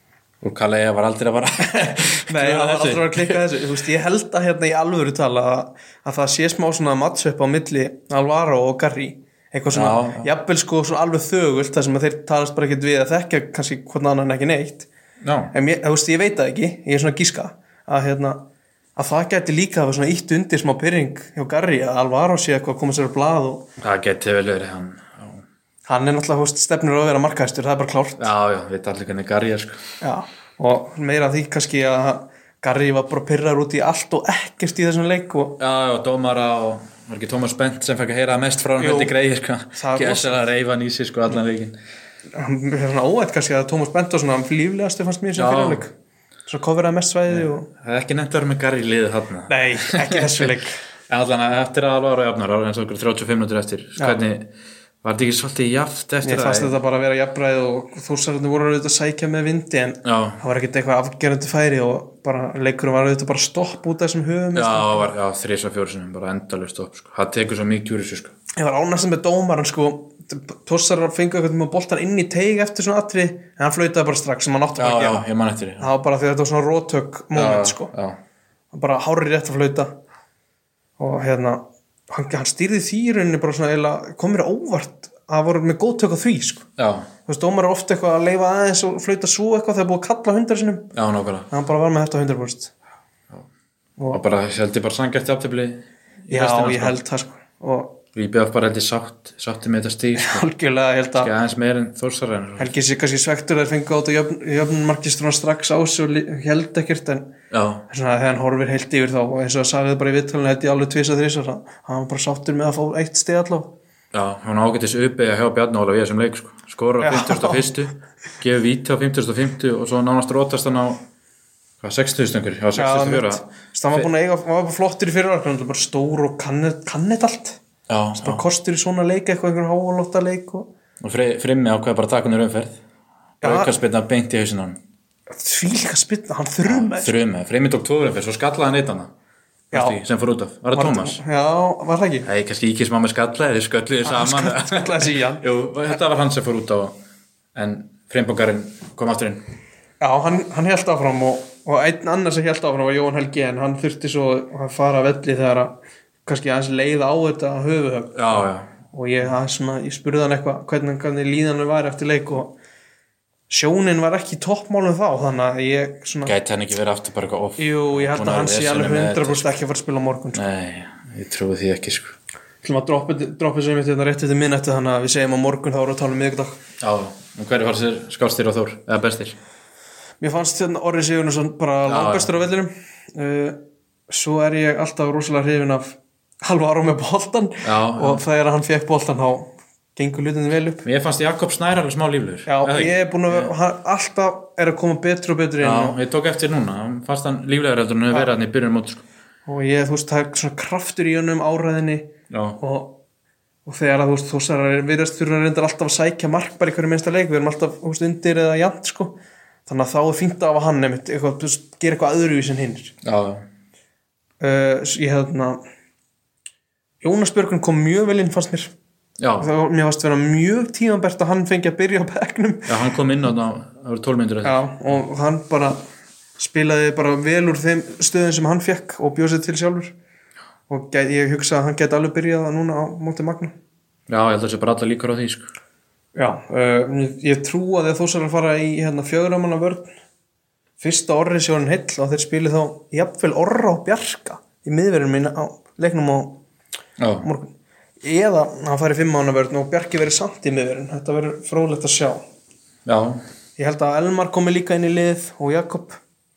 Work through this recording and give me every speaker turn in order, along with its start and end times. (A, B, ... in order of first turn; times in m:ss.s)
0:00.4-0:03.4 A
0:01.6-0:14.9 B
0:09.7-0:10.3 A
0:15.2-0:15.5 A
0:15.5-0:18.4 B
0:19.0-0:23.6 B
0:23.8-0:25.4 A
0:25.9-0:28.3 B
0:28.2-0:29.8 A
0:30.0-0:35.6 B
0:35.6-0:41.8 A
0:38.8-0:39.1 B
0:39.8-0:40.4 B
0:42.3-0:45.9 B
0:45.4-0:45.8 A
0:46.5-0:47.7 B
0:47.3-0:50.5 A
0:49.5-0:50.8 B
0:51.1-0:54.5 A
0:55.0-0:56.8 A
0:56.2-1:05.1 B
1:00.0-1:00.4 A
1:04.5-1:08.3 A
1:08.6-1:15.2 B
1:14.8-1:15.9 A
1:15.8-1:17.9 B
1:17.3-1:18.2 A
1:18.7-1:20.0 B
1:21.0-1:26.7 B
1:26.8-1:27.1 A
1:27.3-1:30.9 B
1:30.9-1:31.5 A
1:31.5-1:32.7 B
1:34.1-1:37.0 A
1:36.3-1:38.0 B
1:38.1-1:40.4 A
1:40.2-1:41.3 B
1:41.2-1:42.7 A
1:42.6-1:47.3 B
1:47.5-1:47.8 A
1:47.9-1:53.7 B
1:54.1-2:01.0 A
1:57.0-1:57.7 B
2:01.8-2:04.1 A
2:02.8-2:07.6 B
2:07.9-2:08.4 A
2:08.2-2:10.7 B
2:11.0-2:12.8 A
2:13.4-2:13.7 B
2:13.4-2:14.8 A
2:15.3-2:17.1 B
2:16.6-2:19.1 A
2:19.7-2:20.0 B
2:19.7-2:21.2 A
2:20.8-2:22.3 B
2:22.2-2:27.0 A
2:24.0-2:25.4 B
2:27.6-2:29.4 A
2:30.0-2:38.4 B
2:38.1-2:38.7 A
2:38.9-2:42.5 B
2:43.5-2:46.3 B
2:46.2-2:49.6 A
2:47.6-2:50.4 B
2:50.3-2:52.2 A
2:52.6-2:56.6 B
2:56.8-2:59.4 A
3:00.2-3:03.6 B
3:01.8-3:02.3 A
3:04.1-3:10.8 B
3:07.6-3:08.2 A
3:10.8-3:13.5 A
3:12.4-3:16.0 B
3:15.6-3:19.0 A
3:19.5-3:23.0 B
3:22.3-3:22.6 A
3:23.6-3:32.9 B
3:33.0-3:33.4 A
3:34.4-3:35.6 B
3:37.0-3:38.7 B
3:39.2-3:39.5 A
3:39.4-3:42.8 B
3:42.7-3:45.0 A
3:44.4-3:45.8 B
3:46.4-3:49.9 B
3:50.7-3:53.6 B
3:54.1-3:55.5 A
3:56.1-3:59.9 B
4:00.8-4:06.4 B
4:07.0-4:07.3 A
4:07.2-4:12.2 B
4:12.9-4:13.2 A
4:13.6-4:16.0 B